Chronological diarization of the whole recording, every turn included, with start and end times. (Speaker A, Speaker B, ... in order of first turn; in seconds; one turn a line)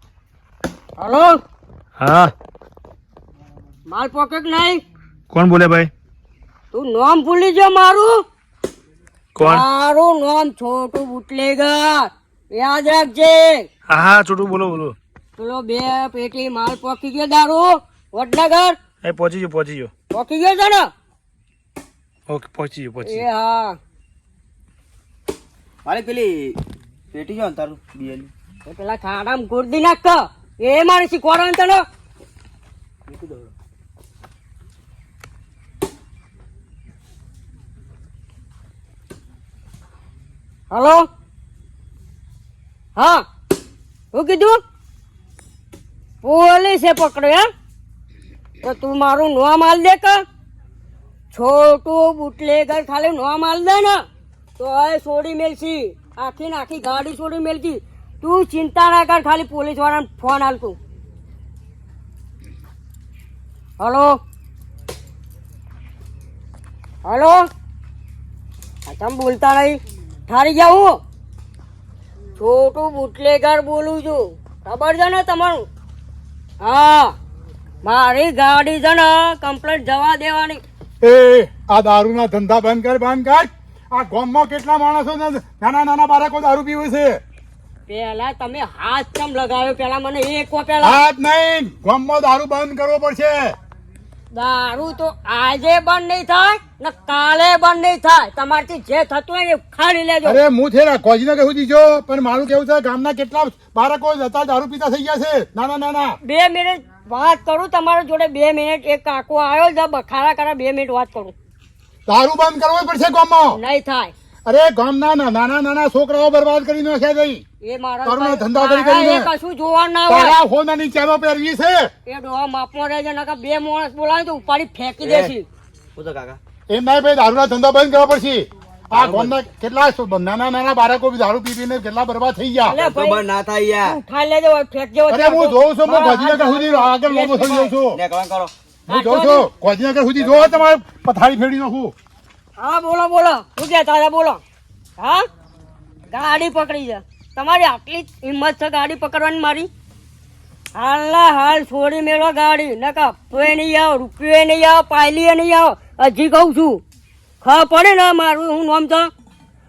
Speaker A: 1.0-1.4
Speaker B: 2.0-2.3
Speaker A: 3.9-4.8
Speaker B: 5.3-5.9
Speaker A: 6.7-8.2
Speaker B: 9.4-9.6
Speaker A: 9.4-13.7
Speaker B: 13.9-15.0
Speaker A: 15.4-18.8
Speaker B: 19.0-19.9
Speaker A: 20.1-20.9
Speaker B: 22.3-23.2
Speaker A: 23.0-23.8
Speaker C: 25.9-26.6
Speaker C: 27.1-28.3
Speaker A: 28.6-31.8
Speaker C: 33.1-33.5
Speaker A: 40.7-41.0
Speaker A: 43.0-43.2
Speaker A: 44.1-44.6
Speaker A: 46.2-47.5
Speaker A: 48.6-50.2
Speaker A: 51.3-54.0
Speaker A: 54.6-60.8
Speaker A: 63.8-64.2
Speaker A: 67.0-67.4
Speaker A: 68.9-71.0
Speaker A: 72.4-75.6
Speaker A: 76.6-77.1
Speaker A: 77.8-80.6
Speaker D: 81.0-87.2
Speaker A: 87.9-91.0
Speaker D: 90.8-93.5
Speaker A: 94.3-100.4
Speaker D: 100.2-106.2
Speaker A: 106.2-111.3
Speaker D: 112.1-113.6
Speaker A: 113.5-114.1
Speaker D: 114.5-117.4
Speaker A: 117.6-120.4
Speaker D: 118.0-119.3
Speaker D: 120.1-121.9
Speaker A: 122.1-125.5
Speaker C: 125.0-125.3
Speaker C: 126.0-126.4
Speaker D: 126.7-132.8
Speaker C: 128.9-129.4
Speaker A: 132.7-133.3
Speaker C: 132.7-134.0
Speaker A: 133.8-137.7
Speaker D: 135.1-138.0
Speaker C: 137.9-138.5
Speaker D: 138.9-141.9
Speaker A: 138.9-139.5
Speaker C: 140.2-140.6
Speaker A: 142.6-144.4
Speaker A: 145.0-145.3
Speaker A: 146.1-149.7
Speaker A: 150.8-156.8
Speaker A: 157.4-159.1